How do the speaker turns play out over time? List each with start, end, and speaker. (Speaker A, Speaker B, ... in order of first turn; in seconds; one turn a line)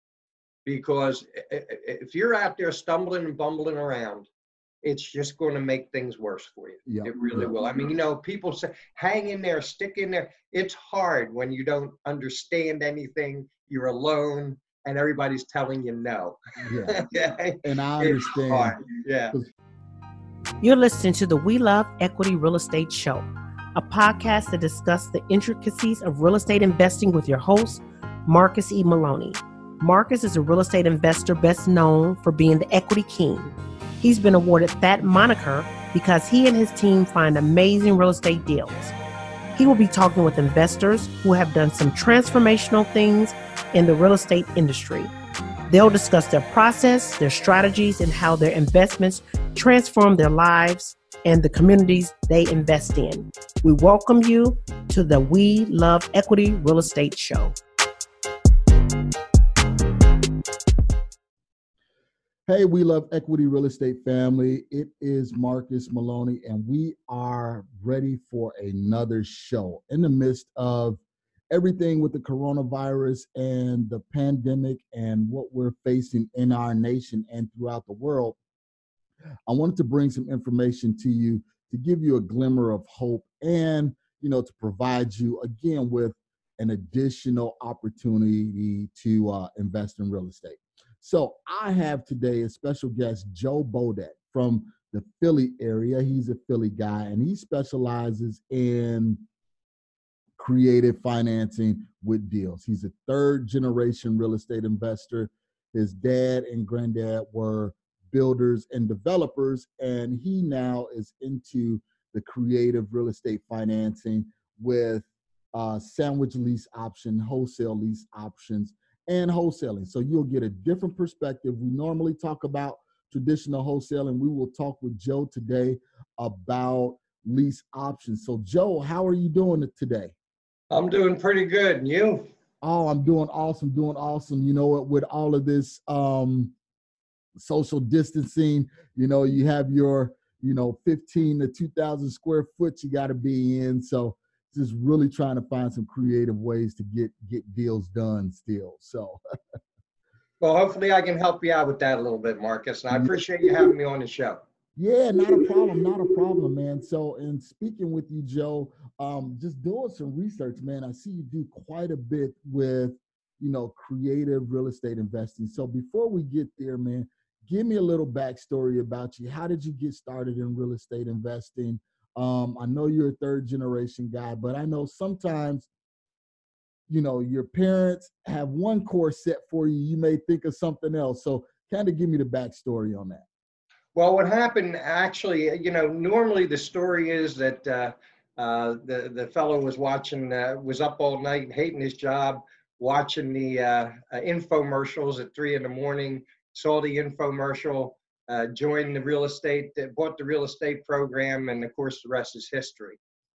Speaker A: 0.6-4.3
Speaker A: 4.8-19.3
Speaker B: 6.9-7.5
Speaker B: 16.6-17.0
Speaker B: 17.6-18.8
Speaker C: 20.6-38.9
Speaker C: 39.5-45.1
Speaker C: 45.7-57.6
Speaker B: 62.5-78.4
Speaker B: 79.5-99.2
Speaker B: 100.4-130.1
Speaker A: 130.7-132.3
Speaker B: 132.6-136.5
Speaker B: 137.4-149.2
Speaker A: 150.4-154.4
Speaker B: 152.9-153.7
Speaker B: 154.8-175.7
Speaker B: 176.9-183.2
Speaker A: 183.9-203.0